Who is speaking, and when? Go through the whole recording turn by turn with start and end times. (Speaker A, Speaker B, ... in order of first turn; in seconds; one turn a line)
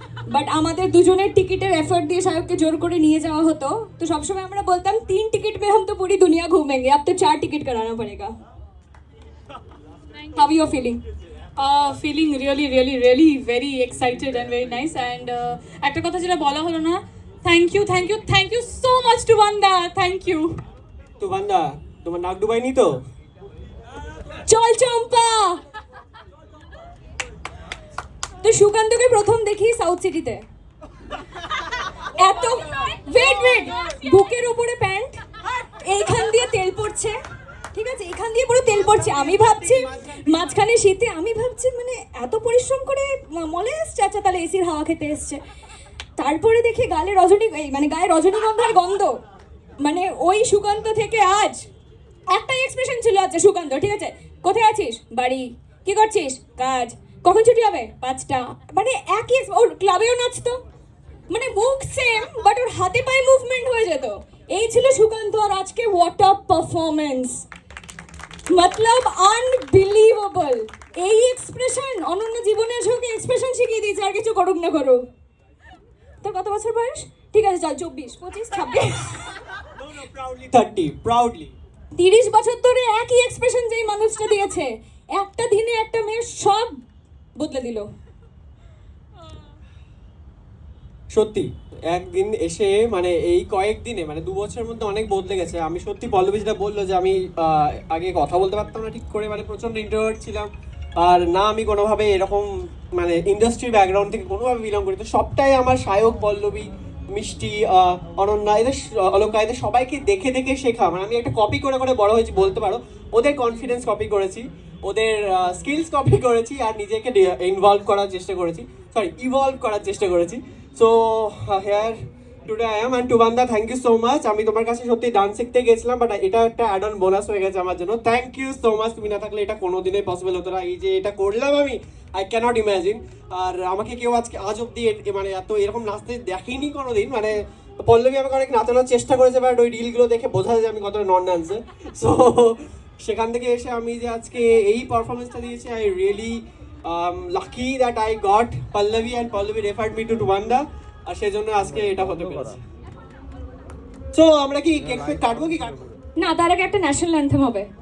Speaker A: 0.3-8.3
Speaker A: 10.3-11.0
Speaker B: 11.6-20.6
Speaker C: 21.2-23.0
Speaker A: 24.3-25.6
Speaker A: 28.4-30.4
Speaker A: 32.0-37.2
Speaker A: 37.7-45.4
Speaker C: 38.7-40.4
Speaker A: 46.2-49.2
Speaker A: 49.8-51.7
Speaker A: 52.3-60.6
Speaker A: 61.3-67.5
Speaker A: 68.5-75.0
Speaker A: 76.2-79.3
Speaker C: 79.8-81.5
Speaker A: 82.0-86.8
Speaker A: 87.4-87.9
Speaker C: 91.1-152.6
Speaker C: 154.1-155.8
Speaker A: 156.2-157.7